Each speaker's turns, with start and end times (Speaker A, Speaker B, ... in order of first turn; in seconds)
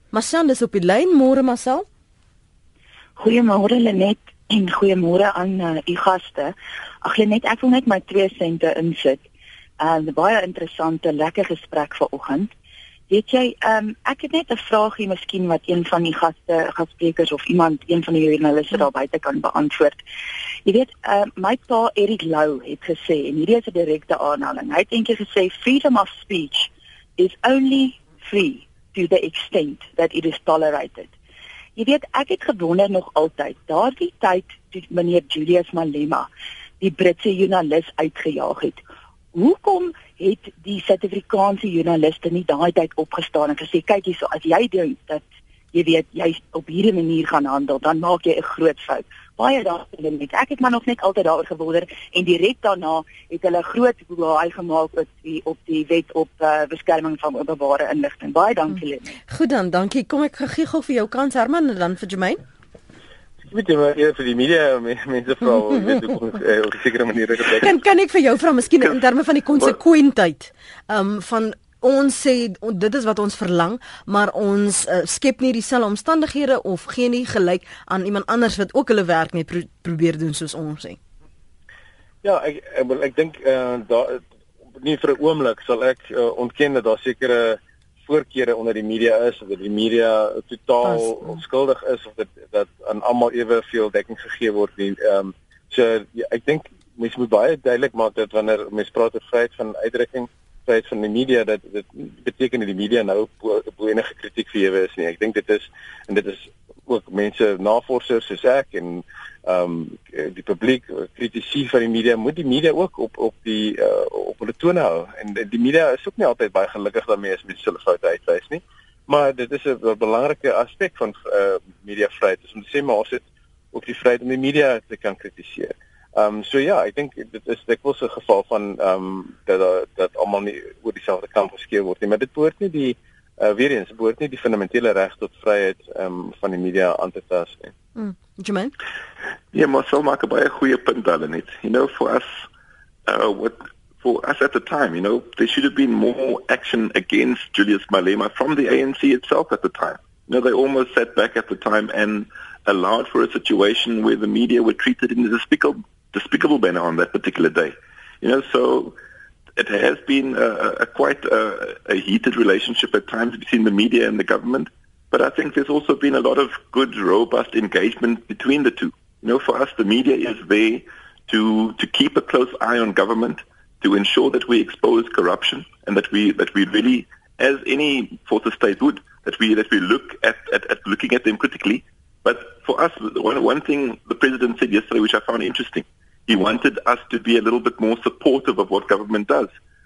Speaker A: 0.1-1.9, 59.3-62.4, 67.6-81.0, 138.0-138.7
Speaker B: 3.2-9.2, 9.8-12.5, 13.1-20.0, 20.6-31.1, 31.8-36.3, 36.8-38.8, 39.3-59.2
Speaker C: 63.4-67.7, 82.2-84.2, 84.8-137.7
Speaker D: 139.5-142.5, 143.1-159.0, 159.6-189.5